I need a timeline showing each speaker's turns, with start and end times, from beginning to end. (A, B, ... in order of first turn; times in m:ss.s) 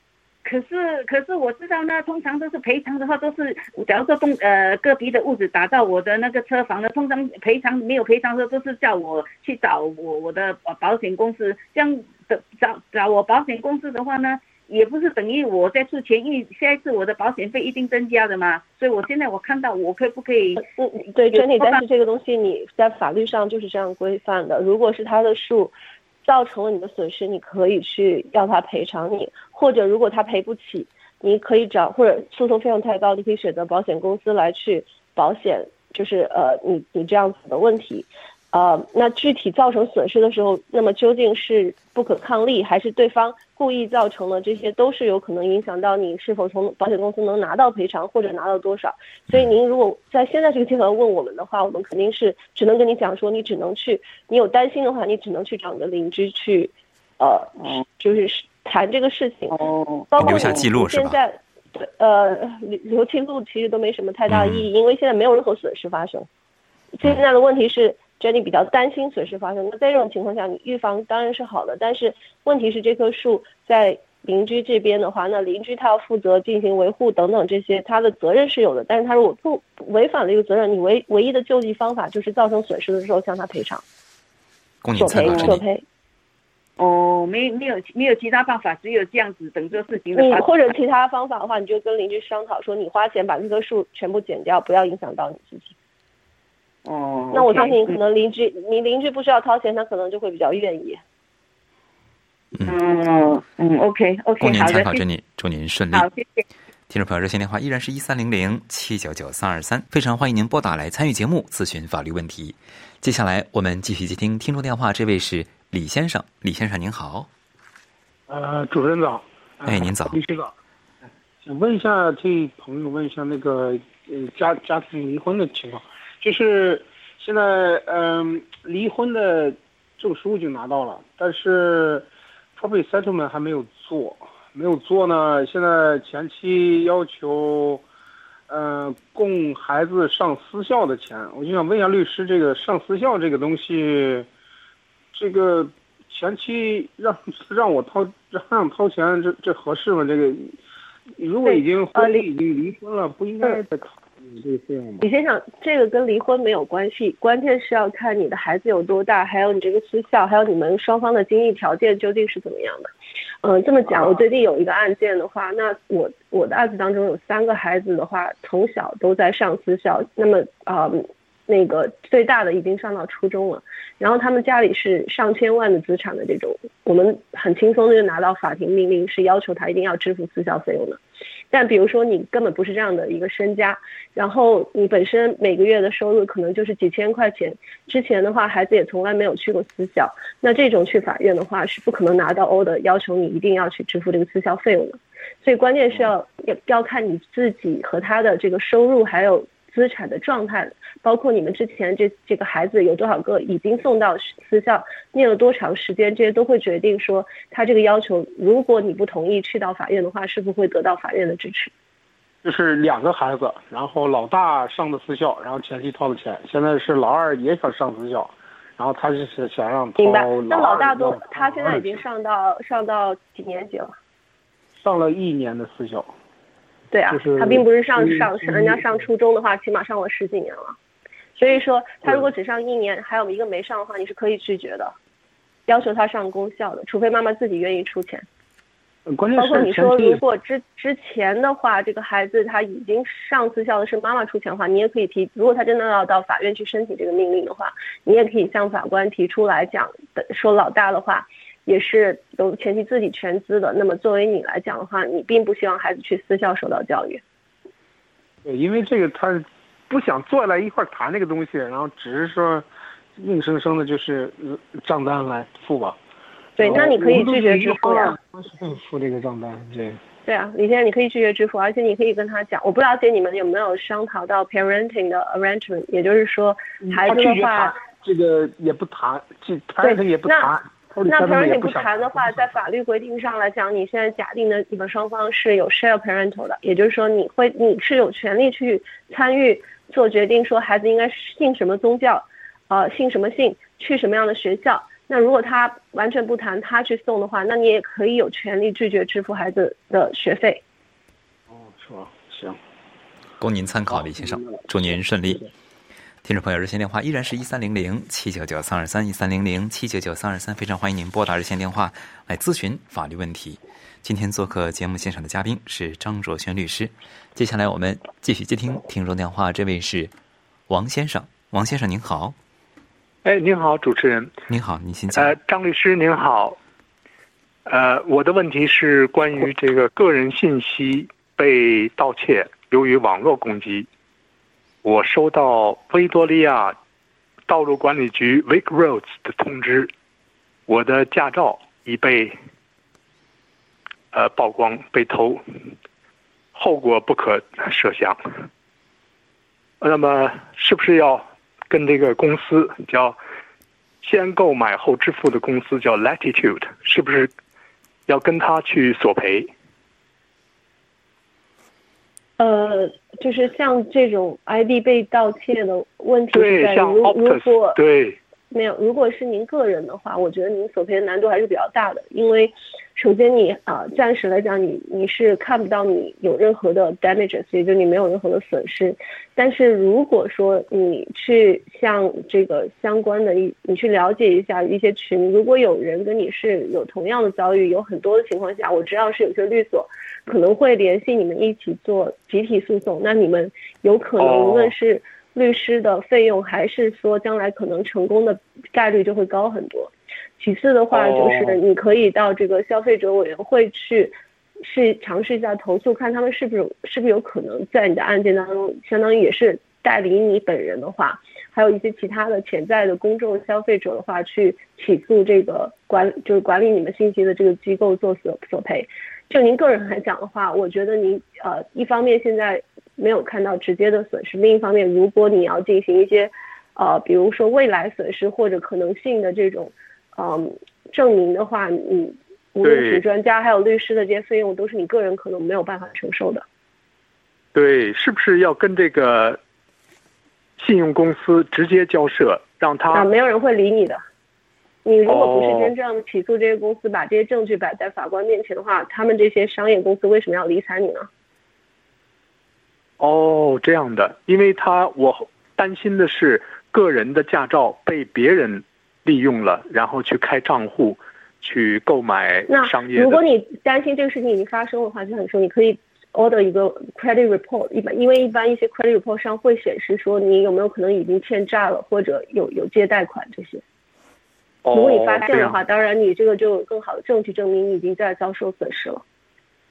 0:00.4-0:20.6 A
0:20.6-0:59.6 B
0:21.3-0:21.8 A
0:59.5-1:00.6 A
1:00.1-1:06.3 B
1:00.2-1:01.2 C
1:04.3-1:04.7 C
1:07.0-1:23.8 B
1:24.8-1:25.6 C
1:25.0-1:25.8 B
1:26.8-1:30.5 A
1:30.1-1:35.8 B
1:36.8-1:38.0 A
1:37.3-1:41.0 B
1:42.6-1:45.0 A
1:44.4-1:46.1 C
1:45.9-1:46.4 A
1:46.9-1:57.3 C
1:58.3-2:00.5 D
1:59.6-2:00.2 C
2:01.4-2:17.8 D
2:18.5-2:24.3 D
2:25.1-2:30.5 D
2:31.2-2:35.0 D
2:31.4-2:32.3 B
2:35.0-2:42.9 B
2:43.4-3:01.0 B
3:01.5-3:31.7 B
3:32.4-3:42.0 D
3:40.0-3:43.9 B
3:44.8-3:46.1 D
3:46.9-3:50.8 B
3:47.1-3:49.0 D
3:51.4-3:54.9 B
3:52.0-3:52.3 D
3:55.7-3:58.3 B
3:59.1-4:00.2 D
3:59.4-4:17.2 B
4:18.4-4:26.0 D
4:26.6-4:28.2 B
4:26.6-4:30.0 D
4:30.3-4:37.8 B
4:36.9-4:42.6 D
4:39.8-4:40.5 B
4:41.1-5:00.6 B
5:01.5-5:02.6 D
5:03.4-5:05.4 C
5:04.1-5:05.5 D
5:06.2-5:20.1 C
5:20.7-5:22.4 C
5:23.2-5:24.3 E
5:24.5-5:25.4 C
5:25.1-5:26.6 E
5:27.6-5:33.9 E
5:34.8-5:36.8 E
5:37.5-5:39.9 E
5:40.7-5:42.4 E
5:44.1-5:45.4 E
5:46.6-5:48.2 E
5:49.8-5:53.2 E
5:54.0-5:57.3 E
5:58.1-5:59.5 E
6:02.4-6:07.8 B
6:06.3-6:08.2 E
6:08.5-7:16.4 B
6:34.2-6:34.7 E
6:40.9-6:41.6 E
7:12.6-7:13.0 E
7:17.6-7:19.4 E
7:20.6-7:23.1 E
7:22.9-7:24.0 B
7:24.8-7:31.1 B
7:25.1-7:25.7 E
7:33.0-7:43.2 E
7:42.5-7:53.6 B
7:54.6-7:55.6 E
7:54.7-7:59.0 B